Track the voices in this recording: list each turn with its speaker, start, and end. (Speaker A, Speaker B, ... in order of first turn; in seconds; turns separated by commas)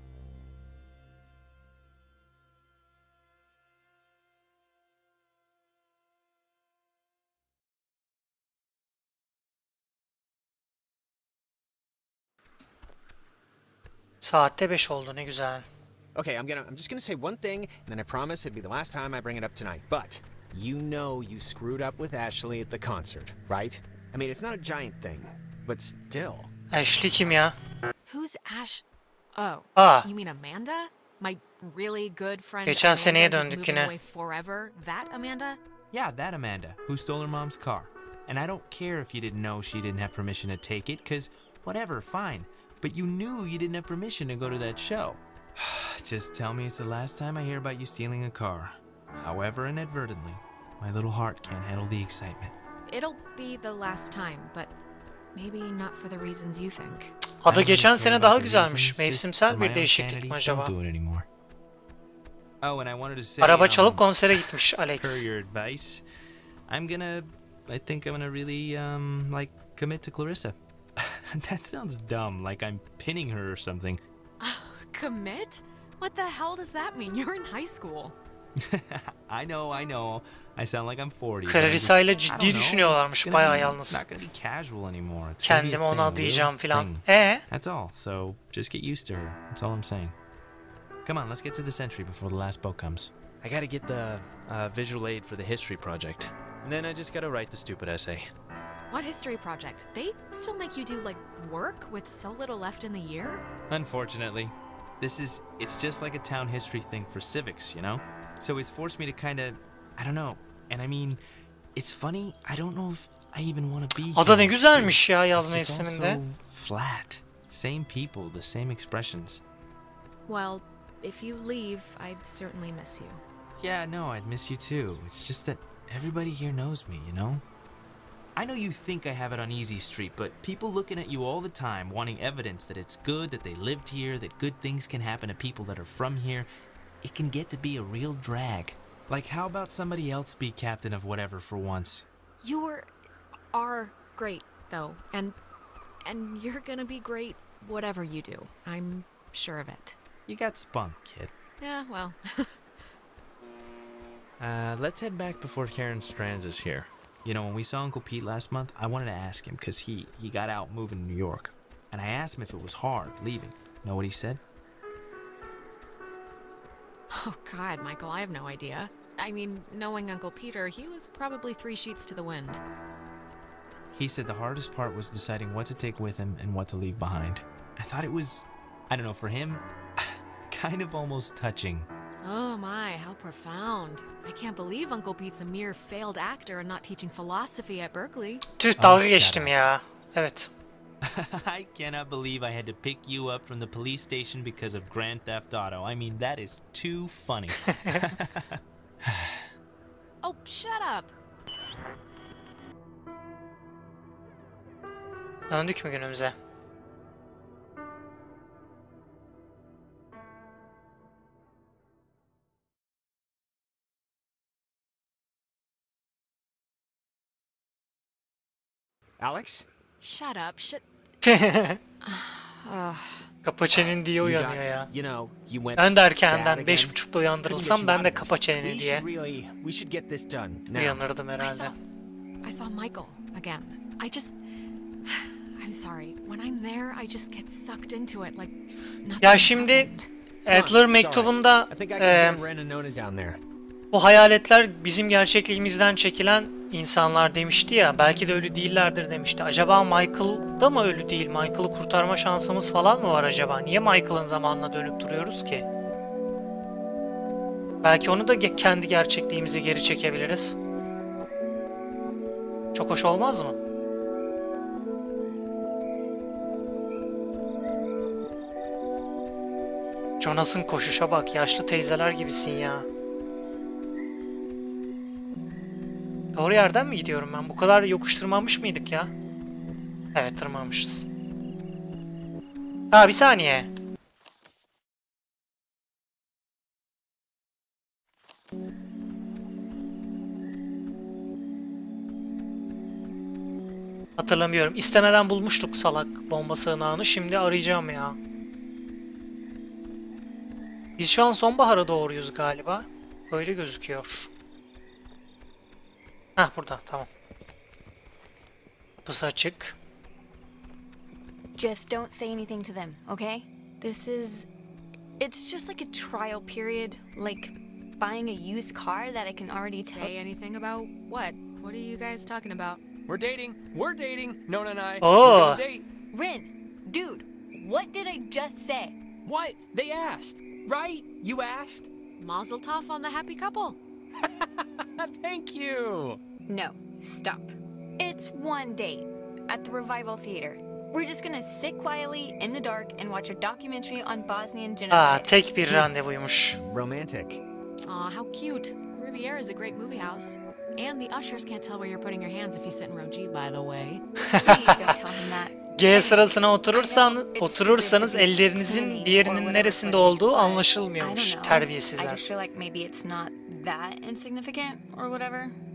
Speaker A: 14.2-15.7, Speaker B: 16.1-27.4, Speaker A: 26.7-27.6, Speaker C: 28.1-28.8, Speaker C: 29.4-35.6, Speaker A: 29.8-30.1, Speaker A: 32.7-33.9, Speaker D: 35.9-52.5, Speaker C: 52.9-54.7, Speaker C: 55.3-57.1, Speaker A: 57.4-60.7, Speaker D: 57.5-61.3, Speaker D: 62.6-66.0, Speaker A: 63.4-65.3, Speaker D: 66.7-74.0, Speaker C: 74.4-78.2, Speaker D: 78.7-90.2, Speaker A: 81.4-84.1, Speaker A: 85.4-87.4, Speaker D: 91.0-98.3, Speaker C: 98.9-103.4, Speaker D: 103.7-111.2, Speaker D: 111.8-119.4, Speaker A: 114.2-116.2, Speaker C: 120.3-123.2, Speaker D: 123.6-127.4, Speaker D: 128.4-136.5, Speaker D: 137.0-142.1, Speaker C: 142.4-142.9, Speaker C: 143.5-145.4, Speaker C: 146.0-150.0, Speaker D: 150.3-151.3, Speaker C: 151.6-152.6, Speaker D: 154.4-164.4, Speaker C: 167.1-172.6, Speaker D: 173.9-181.9, Speaker C: 182.2-188.4, Speaker A: 188.6-190.5, Speaker D: 188.8-189.5, Speaker D: 191.1-199.3, Speaker A: 197.7-198.0, Speaker C: 200.2-201.1, Speaker A: 205.5-206.3, Speaker B: 219.2-219.7, Speaker C: 220.0-220.8, Speaker A: 221.2-221.8, Speaker C: 222.0-223.3, Speaker A: 223.4-224.9, Speaker B: 223.7-231.0, Speaker A: 225.8-229.1, Speaker A: 230.7-231.8, Speaker C: 231.4-231.7, Speaker C: 232.4-234.4, Speaker C: 235.1-240.1, Speaker A: 239.2-239.9, Speaker A: 240.4-242.4, Speaker B: 240.5-243.4, Speaker A: 243.9-255.7, Speaker A: 257.8-260.6, Speaker A: 262.7-263.6, Speaker A: 270.2-272.9, Speaker A: 276.4-279.1, Speaker A: 280.1-281.1, Speaker A: 282.9-283.7, Speaker A: 294.2-298.2, Speaker A: 301.0-304.3, Speaker A: 306.4-307.1, Speaker A: 309.0-309.8, Speaker E: 311.6-314.5, Speaker E: 315.2-320.1, Speaker C: 319.8-322.8, Speaker F: 323.1-325.8, Speaker A: 325.0-325.6, Speaker E: 326.1-329.0, Speaker F: 329.2-331.9, Speaker C: 332.2-333.8, Speaker F: 335.0-336.2, Speaker E: 336.5-345.4, Speaker A: 344.9-346.6, Speaker B: 346.5-347.4, Speaker C: 347.8-354.0, Speaker A: 354.3-354.9, Speaker E: 354.3-365.6, Speaker A: 355.8-362.3